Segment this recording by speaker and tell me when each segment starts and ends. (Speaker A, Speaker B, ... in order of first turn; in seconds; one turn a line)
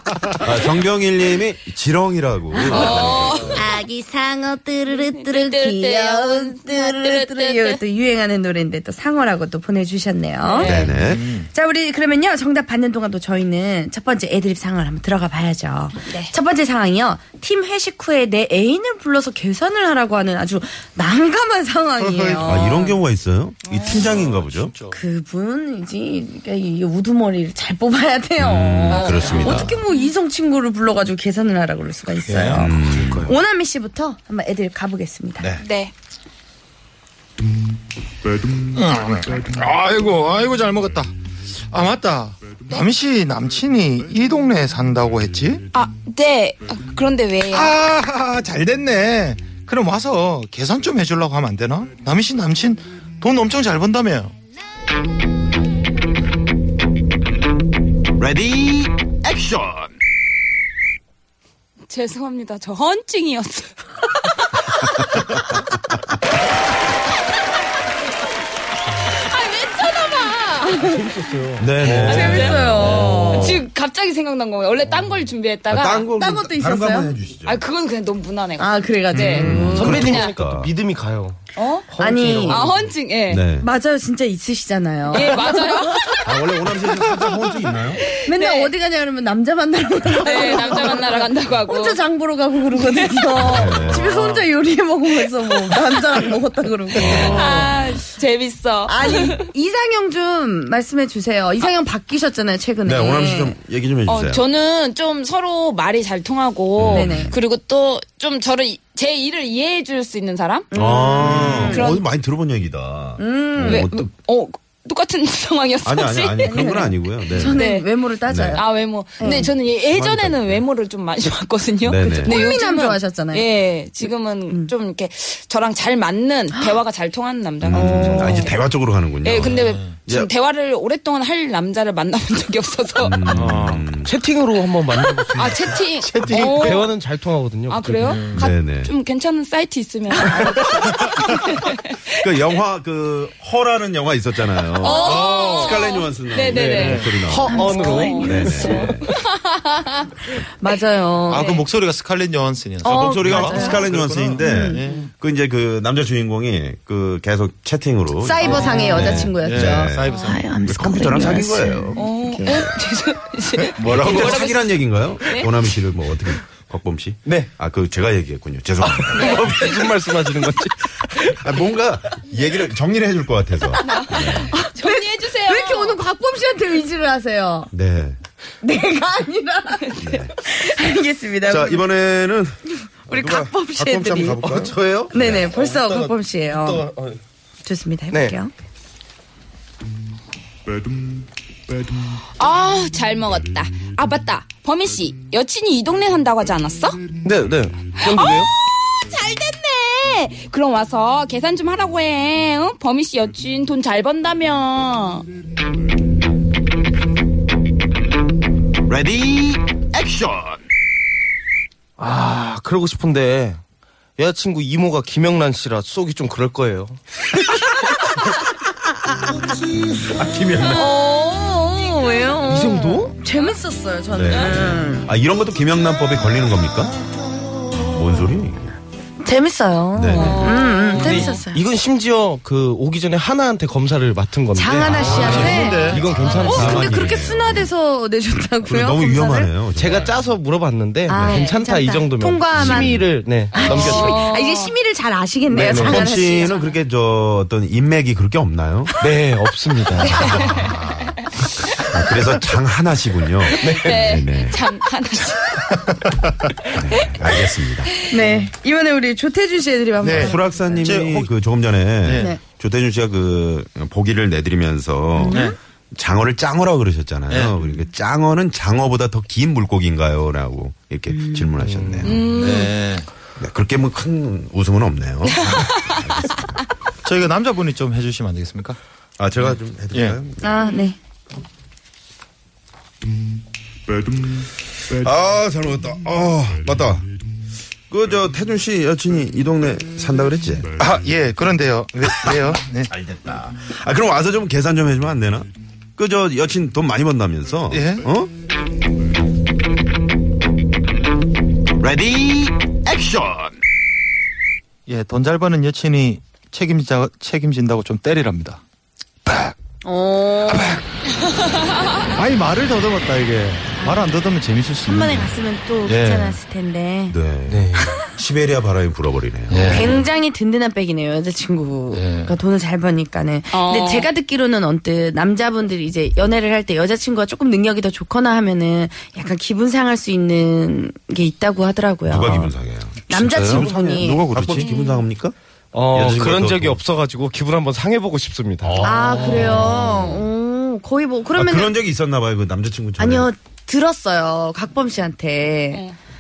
Speaker A: 0.4-3.7
Speaker B: 2.5-10.8
Speaker C: 2.7-3.7
Speaker C: 4.9-7.8
Speaker C: 10.4-10.9
Speaker A: 10.6-11.3
Speaker D: 10.7-11.5
Speaker B: 11.5-22.9
Speaker C: 16.1-16.3
Speaker D: 22.0-23.0
Speaker A: 22.4-24.7
Speaker D: 23.7-25.0
Speaker C: 23.7-24.0
Speaker B: 24.9-35.5
Speaker A: 28.4-29.8
Speaker C: 28.9-30.1
Speaker D: 29.4-29.7
Speaker D: 32.3-32.8
Speaker A: 32.5-33.3
Speaker E: 32.9-33.4
Speaker C: 35.6-35.9
Speaker D: 38.7-41.1
Speaker D: 41.7-45.6
Speaker C: 45.7-47.8
Speaker D: 47.5-54.3
Speaker A: 58.2-59.8
Speaker C: 61.9-63.8
Speaker C: 69.1-70.9
Speaker E: 70.8-71.7
Speaker A: 71.6-73.7
Speaker D: 71.8-72.5
Speaker B: 71.9-73.6
Speaker C: 72.1-76.1
Speaker A: 75.7-77.6
Speaker B: 76.2-77.1
Speaker C: 77.5-80.3
Speaker B: 78.6-80.1
Speaker D: 79.1-79.5
Speaker A: 79.4-80.7
Speaker E: 79.5-82.8
Speaker C: 81.6-81.9
Speaker B: 82.0-82.6
Speaker C: 82.5-83.5
Speaker A: 83.3-83.7
Speaker B: 83.6-86.2
Speaker C: 85.1-86.2
Speaker A: 86.2-88.1
Speaker C: 88.1-88.7
Speaker B: 88.2-97.8
Speaker C: 90.2-92.0
Speaker C: 92.8-93.3
Speaker A: 93.4-94.1
Speaker D: 93.9-94.5
Speaker A: 97.0-97.5
Speaker D: 97.0-97.6
Speaker C: 97.1-99.5
Speaker B: 98.9-103.6
Speaker A: 102.8-104.4
Speaker C: 104.1-110.7
Speaker A: 106.8-107.4
Speaker B: 106.9-107.3
Speaker B: 110.7-112.0
Speaker A: 110.7-114.1
Speaker C: 111.6-112.0
Speaker B: 113.2-113.9
Speaker C: 113.6-116.7
Speaker A: 115.8-117.6
Speaker B: 116.4-118.6
Speaker C: 117.4-117.9
Speaker A: 118.3-118.6
Speaker C: 118.5-128.6
Speaker B: 119.2-119.5
Speaker A: 119.2-120.6
Speaker A: 121.8-122.5
Speaker B: 122.0-123.5
Speaker B: 124.0-124.7
Speaker A: 127.6-130.3
Speaker B: 127.7-128.5
Speaker C: 129.2-133.3
Speaker D: 129.4-130.0
Speaker A: 133.0-134.1
Speaker D: 133.3-133.9
Speaker E: 134.0-138.2
Speaker C: 135.3-136.9
Speaker D: 136.1-136.8
Speaker C: 137.7-142.2
Speaker D: 138.0-138.4
Speaker A: 138.3-138.9
Speaker A: 142.1-147.6
Speaker C: 144.8-150.1
Speaker B: 144.9-145.3
Speaker D: 145.0-145.8
Speaker E: 146.5-149.0
Speaker D: 146.8-147.2
Speaker B: 147.5-148.7
Speaker A: 148.2-149.1
Speaker B: 150.4-151.6
Speaker D: 151.3-155.1
Speaker C: 151.3-151.6
Speaker B: 152.8-153.8
Speaker A: 152.8-162.7
Speaker B: 154.4-154.8
Speaker B: 158.2-162.6
Speaker D: 158.4-160.5
Speaker C: 162.0-164.7
Speaker A: 163.8-169.7
Speaker E: 163.9-164.4
Speaker C: 165.2-165.5
Speaker E: 167.2-167.5
Speaker E: 168.8-171.4
Speaker C: 169.2-169.9
Speaker A: 171.3-174.5
Speaker B: 173.8-177.7
Speaker C: 173.8-176.0
Speaker A: 177.7-178.2
Speaker B: 178.6-181.8
Speaker A: 180.0-180.3
Speaker A: 181.4-182.6
Speaker A: 183.1-185.4
Speaker B: 183.1-186.9
Speaker E: 184.4-187.2
Speaker B: 187.7-188.5
Speaker E: 188.1-188.4
Speaker C: 192.4-197.0
Speaker E: 197.2-198.5
Speaker C: 198.0-205.3
Speaker A: 208.9-210.5
Speaker E: 212.0-213.6
Speaker E: 214.2-217.0
Speaker A: 220.0-220.9
Speaker B: 220.7-225.1
Speaker E: 222.5-223.2
Speaker A: 224.1-227.0
Speaker A: 227.9-228.8
Speaker B: 229.2-231.6
Speaker A: 229.9-230.5
Speaker C: 230.2-231.3
Speaker E: 230.9-237.2
Speaker B: 234.6-239.5
Speaker A: 234.8-237.7
Speaker D: 234.9-236.7
Speaker A: 238.6-240.1
Speaker E: 239.8-244.2
Speaker B: 241.1-246.6
Speaker C: 241.2-241.5
Speaker A: 242.6-243.1
Speaker C: 243.5-244.7
Speaker E: 245.5-246.1
Speaker A: 245.7-248.9
Speaker C: 246.4-246.7
Speaker E: 249.0-250.6
Speaker C: 250.0-250.7
Speaker A: 250.2-251.1
Speaker D: 250.6-250.8
Speaker A: 251.7-254.6
Speaker C: 253.5-255.8
Speaker E: 253.6-254.1
Speaker A: 256.7-257.9
Speaker C: 257.0-257.4
Speaker B: 258.1-260.9
Speaker D: 260.0-261.3
Speaker A: 260.1-272.2
Speaker D: 262.0-262.3
Speaker B: 265.2-265.6
Speaker D: 265.3-265.6
Speaker D: 267.3-267.6
Speaker B: 271.1-271.5
Speaker E: 271.6-272.3
Speaker C: 272.0-272.7
Speaker D: 272.2-273.1
Speaker A: 273.4-276.6
Speaker C: 275.3-276.0
Speaker D: 277.1-278.8
Speaker A: 279.2-280.4
Speaker B: 280.4-281.0
Speaker A: 284.9-287.1
Speaker A: 287.9-290.7
Speaker D: 290.8-292.9
Speaker A: 292.1-292.3
Speaker A: 292.9-298.3
Speaker D: 297.7-298.1
Speaker A: 301.8-303.5
Speaker D: 304.9-308.6
Speaker D: 309.3-309.5
Speaker B: 309.8-310.8
Speaker D: 310.5-310.8
Speaker D: 312.1-316.4
Speaker B: 313.8-314.1
Speaker B: 314.8-317.2
Speaker A: 317.1-320.0
Speaker E: 317.5-318.0
Speaker D: 319.5-320.0
Speaker B: 319.7-332.5
Speaker D: 321.9-322.4
Speaker C: 323.5-324.1
Speaker A: 332.1-335.4
Speaker B: 333.1-334.3
Speaker D: 333.1-334.7
Speaker C: 334.7-334.9
Speaker E: 335.7-338.9
Speaker A: 335.9-336.8
Speaker A: 338.6-340.3
Speaker B: 338.8-341.7
Speaker A: 341.4-343.3
Speaker B: 343.0-345.8